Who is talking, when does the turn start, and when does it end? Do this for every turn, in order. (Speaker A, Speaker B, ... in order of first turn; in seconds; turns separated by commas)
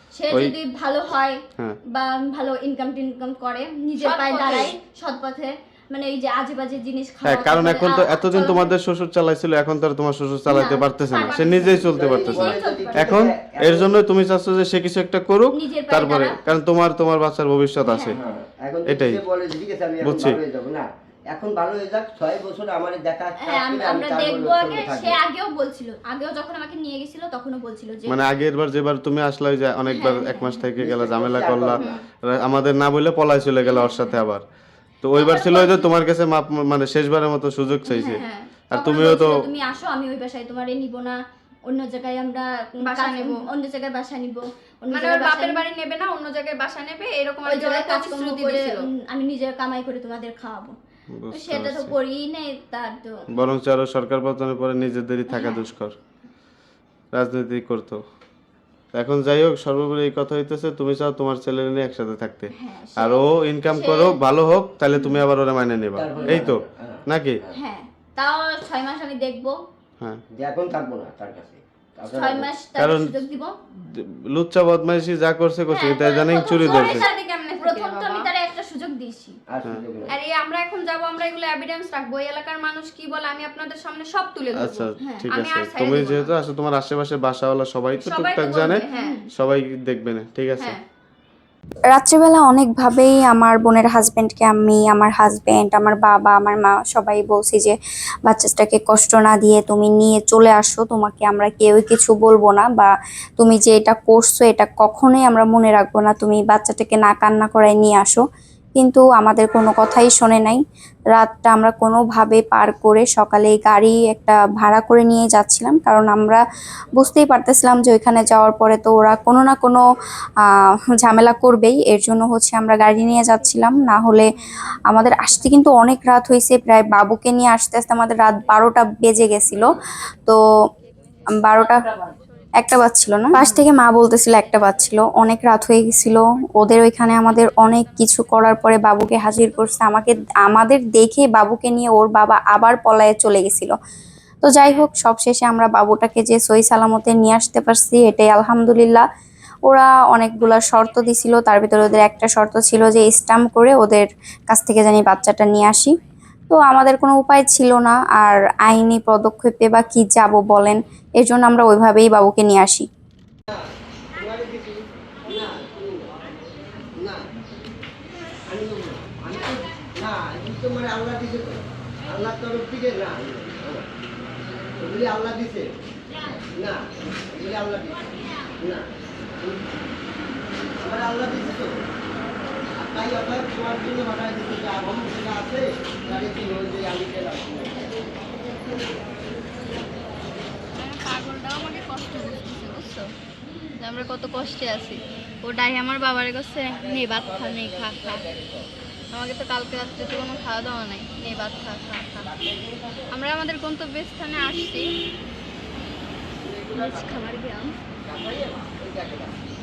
Speaker A: 0.1-1.4, Speaker B: 0.3-0.6, Speaker A: 1.9-8.7, Speaker C: 4.0-4.8, Speaker B: 7.2-18.2, Speaker A: 10.5-13.1, Speaker C: 11.1-12.5, Speaker D: 11.7-14.0, Speaker A: 15.5-16.4, Speaker A: 17.9-18.4, Speaker D: 18.1-25.2, Speaker B: 18.9-19.2, Speaker B: 20.0-20.4, Speaker A: 23.4-28.2, Speaker B: 28.1-34.4, Speaker A: 29.9-30.7, Speaker D: 30.8-31.9, Speaker A: 33.7-34.1, Speaker B: 35.0-39.5, Speaker A: 35.1-35.8, Speaker A: 37.9-45.6, Speaker C: 38.1-38.5, Speaker C: 42.9-43.4, Speaker C: 44.9-48.9, Speaker A: 47.5-50.8, Speaker B: 51.1-52.0, Speaker A: 51.3-53.2, Speaker B: 53.3-56.0, Speaker A: 55.3-55.7, Speaker B: 57.1-58.0, Speaker B: 58.9-67.4, Speaker A: 62.5-64.2, Speaker D: 66.0-67.5, Speaker A: 66.2-66.5, Speaker A: 67.5-69.6, Speaker D: 70.3-72.5, Speaker A: 72.1-73.6, Speaker B: 72.8-73.2, Speaker B: 73.9-77.1, Speaker A: 75.7-79.4, Speaker C: 76.6-78.3, Speaker D: 79.5-80.1, Speaker C: 80.1-86.3, Speaker B: 84.6-88.8, Speaker A: 85.0-85.3, Speaker C: 88.0-89.2, Speaker A: 88.9-89.3, Speaker B: 89.3-90.8, Speaker E: 91.9-97.7, Speaker E: 98.2-108.2, Speaker E: 108.8-110.6, Speaker E: 111.1-116.4, Speaker E: 117.0-119.8, Speaker E: 121.0-124.3, Speaker E: 124.9-130.4, Speaker E: 131.4-131.9, Speaker E: 132.6-143.8, Speaker E: 144.4-149.0, Speaker E: 149.7-155.9, Speaker E: 156.5-162.9, Speaker D: 164.2-167.2, Speaker D: 168.5-173.9, Speaker D: 174.8-175.7, Speaker D: 176.6-178.9, Speaker D: 179.4-179.7, Speaker D: 180.8-181.8, Speaker D: 182.8-187.9, Speaker C: 190.8-193.1, Speaker C: 193.8-198.3, Speaker D: 196.7-198.7, Speaker C: 199.1-202.3, Speaker D: 202.2-203.1, Speaker C: 203.1-204.9, Speaker D: 206.4-207.3, Speaker A: 206.7-207.8, Speaker D: 208.1-209.4